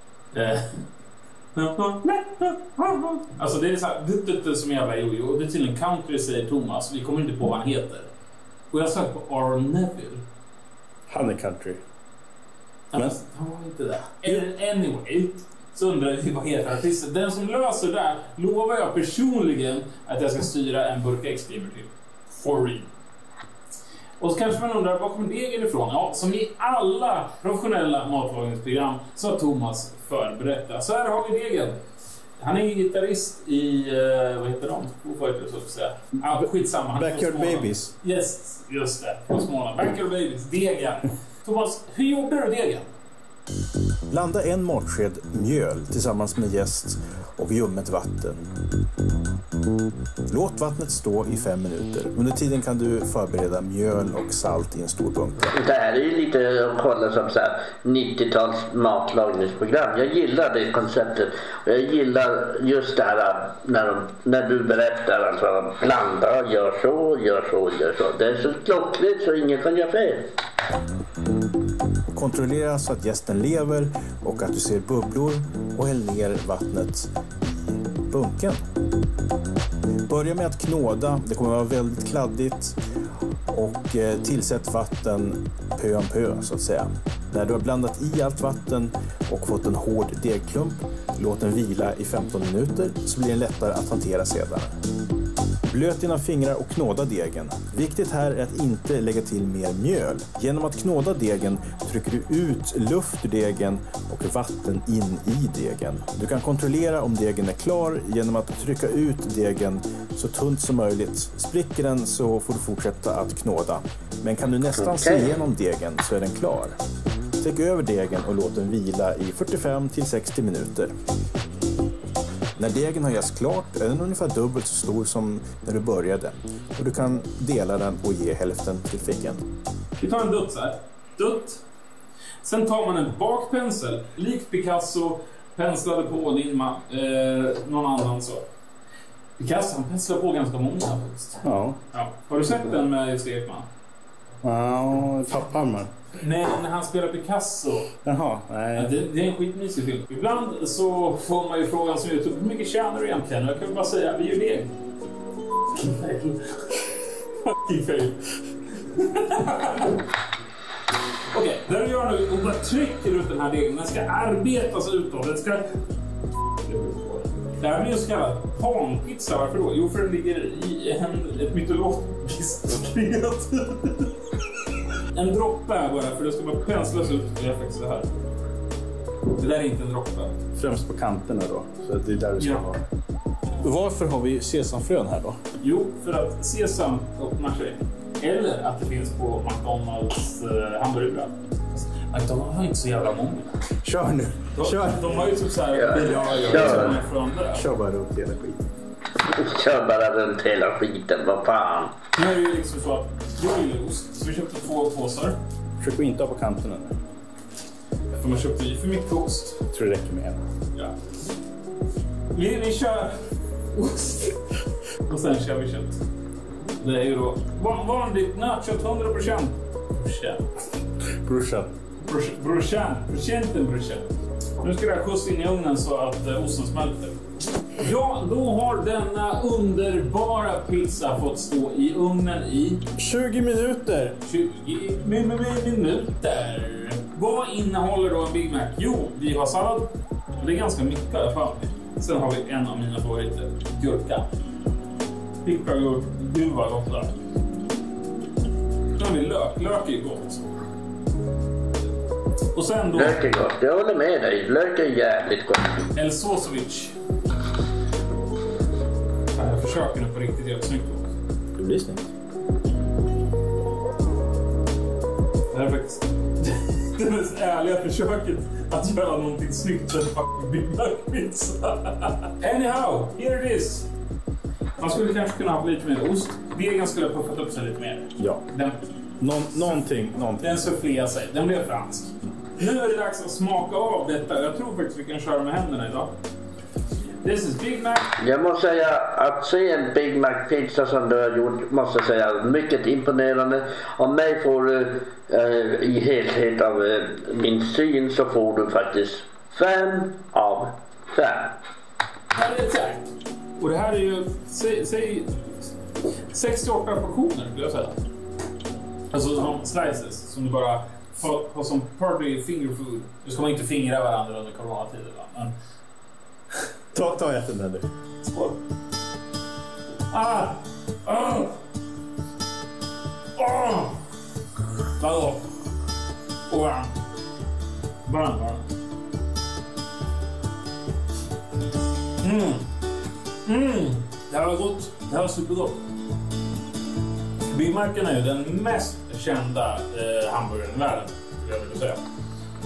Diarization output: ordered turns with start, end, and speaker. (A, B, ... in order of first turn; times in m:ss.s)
0:00.3-0:00.8 A
0:01.5-0:08.1 A
0:08.7-0:10.2 A
0:11.1-0:11.8 B
0:12.9-0:22.9 A
0:24.2-0:31.8 A
0:32.4-0:42.9 A
0:36.2-0:37.9 B
0:44.1-0:48.4 B
0:50.3-0:55.5 B
0:55.5-1:10.2 C
1:12.1-1:18.6 B
1:20.1-1:22.8 B
1:23.5-1:34.7 B
1:35.7-1:56.7 B
1:54.8-1:55.3 C
1:57.4-2:00.9 B
2:02.6-2:09.4 B
2:10.0-2:11.6 A
2:12.4-2:18.4 A
2:19.4-2:23.7 A
2:21.4-2:21.8 B
2:24.4-2:25.9 B
2:26.2-2:27.9 A
2:28.0-2:28.9 B
2:28.7-2:34.7 A
2:35.7-2:40.0 A
2:41.3-2:45.7 A
2:46.6-2:54.1 A
2:55.1-2:58.1 A
2:59.3-3:00.3 A
3:00.6-3:02.8 B
3:02.4-3:02.6 A
3:03.6-3:05.4 B
3:05.6-3:13.6 A
3:13.8-3:15.1 B
3:14.5-3:17.6 A
3:15.7-3:17.0 C
3:15.9-3:17.0 B
3:17.5-3:18.6 B
3:19.3-3:21.9 C
3:22.1-3:25.4 A
3:25.8-3:27.0 B
3:28.2-3:29.6 A
3:29.7-3:30.4 B
3:32.3-3:33.2 A
3:33.7-3:34.4 A
3:35.0-3:36.0 A
3:36.8-3:40.4 A
3:41.2-3:41.7 B
3:42.0-3:44.0 A
3:44.6-3:47.2 A
3:47.7-3:52.8 A
3:53.0-3:54.2 B
3:54.2-4:04.3 A
4:05.4-4:07.1 A
4:09.0-4:10.4 A
4:12.5-4:13.2 A
4:12.9-4:15.8 C
4:15.9-4:16.9 A
4:19.3-4:21.1 A
4:21.6-4:22.1 B
4:25.5-4:33.9 A
4:34.8-4:38.8 A
4:38.2-4:38.4 B
4:39.2-4:40.4 B
4:40.4-4:46.1 A
4:47.2-4:48.1 A
4:48.2-5:01.6 C
5:02.3-5:05.3 A
5:06.3-5:08.0 A
5:09.1-5:15.5 A
5:16.9-5:17.9 B
5:18.2-5:18.6 A
5:20.1-5:21.6 A
5:23.4-5:24.0 A
5:25.0-5:25.5 A
5:26.5-5:26.9 A
5:28.0-5:28.6 A
5:32.2-5:32.6 A
5:33.4-5:35.8 A
5:37.5-5:42.0 A